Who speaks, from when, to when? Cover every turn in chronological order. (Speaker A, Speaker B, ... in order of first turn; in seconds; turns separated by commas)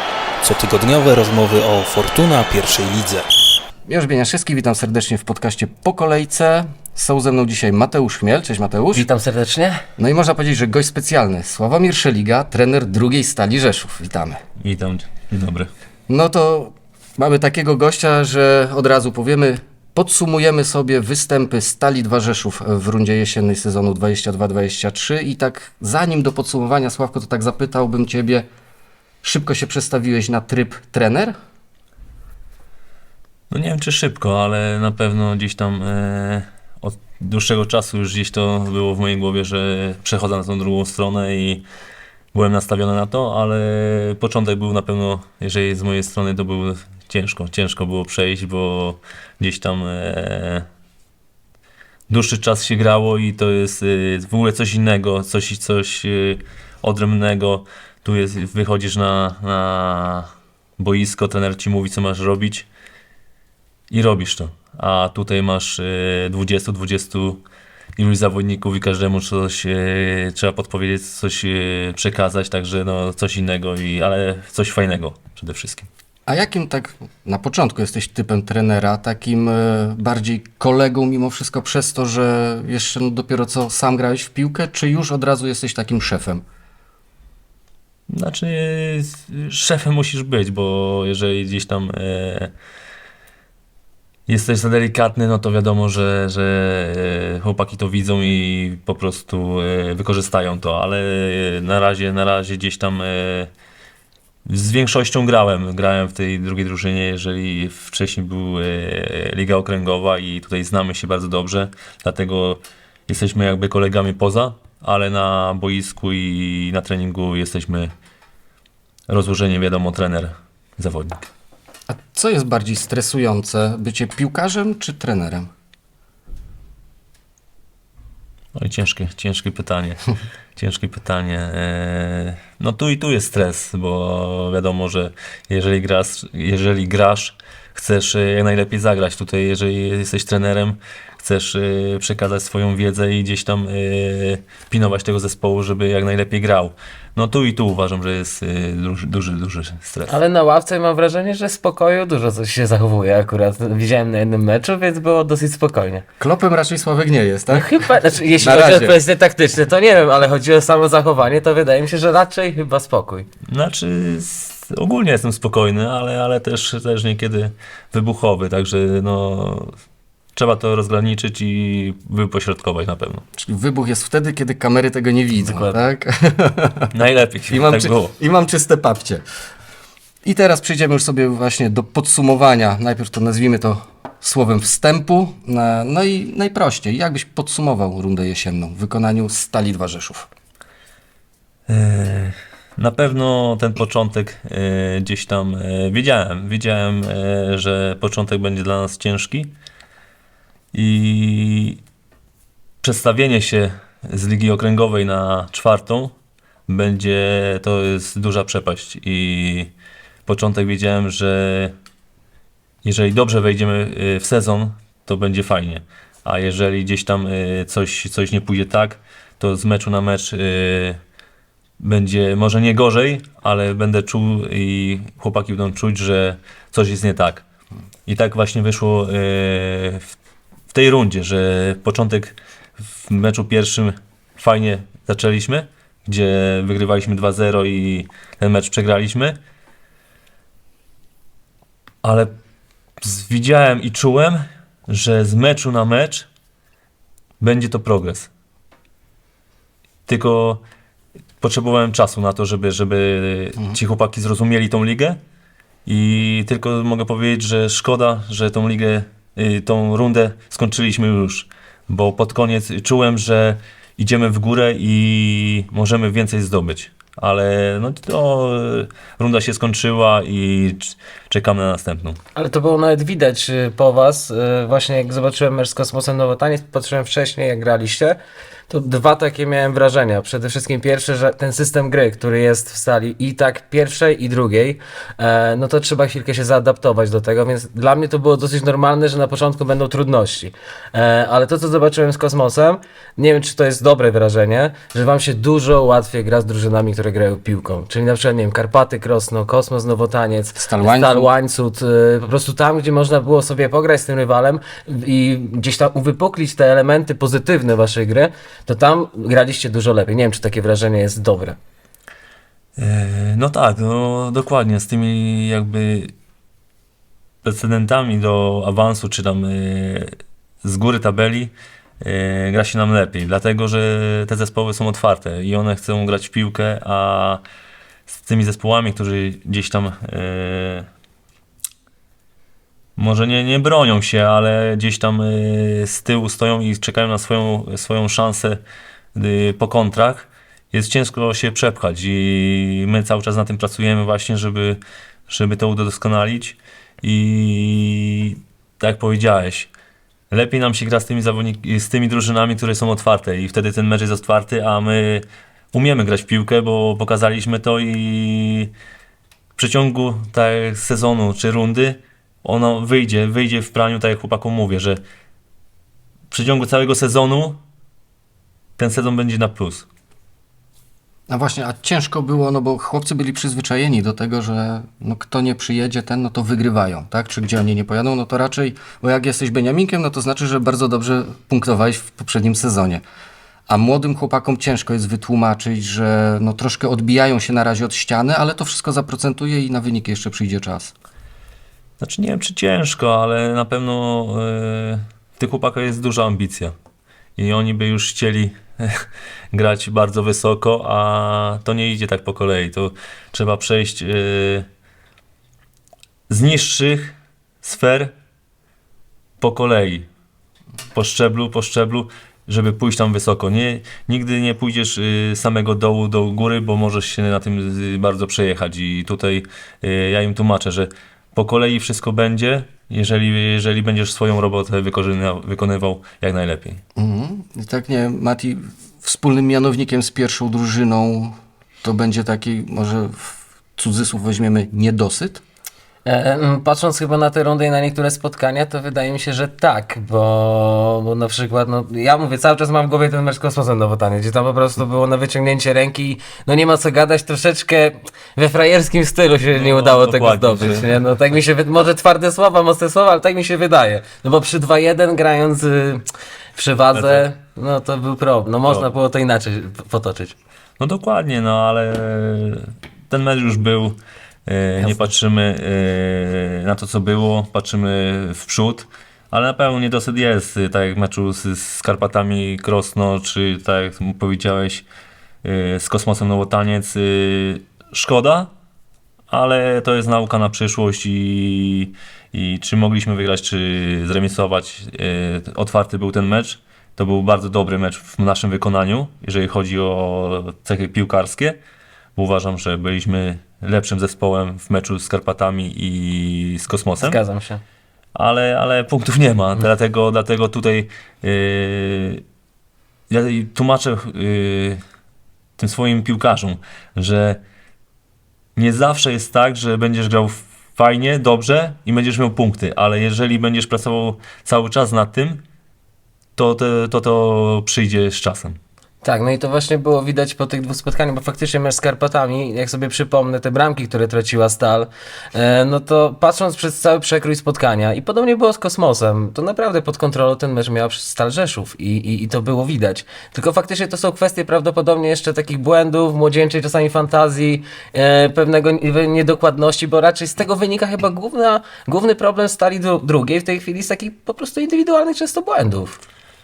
Speaker A: 0.4-3.3, Speaker B: 3.9-9.1, Speaker C: 8.9-9.8, Speaker B: 10.0-14.4, Speaker D: 14.6-15.7, Speaker B: 16.1-28.4, Speaker B: 29.2-31.3, Speaker D: 33.5-41.6, Speaker D: 42.3-50.7, Speaker D: 52.1-62.6, Speaker D: 63.9-67.4, Speaker D: 68.0-75.9, Speaker B: 76.3-86.4, Speaker D: 88.1-92.5, Speaker D: 94.3-103.5, Speaker D: 104.5-117.9, Speaker D: 119.1-121.2, Speaker B: 121.9-125.5, Speaker D: 128.5-130.0, Speaker D: 130.6-150.1, Speaker C: 150.1-156.0, Speaker B: 156.2-157.7, Speaker C: 157.5-163.3, Speaker B: 158.4-159.0, Speaker D: 163.5-169.7, Speaker D: 170.3-173.2, Speaker B: 173.3-176.9, Speaker C: 175.5-175.8, Speaker D: 176.9-178.1, Speaker B: 177.5-179.2, Speaker B: 180.2-190.3, Speaker D: 191.7-199.5, Speaker D: 200.7-201.8, Speaker D: 202.8-206.1, Speaker D: 206.7-209.7, Speaker D: 210.2-211.7, Speaker D: 212.8-221.0, Speaker D: 221.8-227.4, Speaker D: 228.1-230.1, Speaker D: 230.7-239.4, Speaker D: 242.0-242.3, Speaker D: 243.0-246.3, Speaker D: 247.4-248.3, Speaker D: 250.1-250.6, Speaker D: 251.4-255.2, Speaker D: 255.8-272.2, Speaker C: 272.3-278.2, Speaker C: 278.7-311.6, Speaker B: 300.6-301.3, Speaker D: 312.8-316.1, Speaker D: 317.4-327.4, Speaker D: 328.1-330.9, Speaker D: 333.0-338.6, Speaker D: 339.1-349.7, Speaker D: 350.3-358.7, Speaker D: 359.6-365.0, Speaker D: 366.3-367.6, Speaker D: 368.8-369.9, Speaker B: 371.3-383.0, Speaker B: 383.7-390.9, Speaker D: 392.0-396.7, Speaker D: 397.4-404.6, Speaker D: 406.3-408.1, Speaker D: 409.4-410.1, Speaker D: 410.9-426.8, Speaker B: 426.9-435.4, Speaker C: 436.1-460.3, Speaker D: 449.5-451.0, Speaker D: 456.9-457.2, Speaker D: 458.6-458.9, Speaker D: 460.8-474.8, Speaker D: 475.4-478.5, Speaker D: 479.3-491.6, Speaker D: 492.1-497.2, Speaker C: 497.0-497.6, Speaker D: 498.1-502.2, Speaker D: 503.1-504.8, Speaker D: 505.6-507.4, Speaker D: 508.6-515.4, Speaker D: 516.4-518.6, Speaker C: 519.0-546.0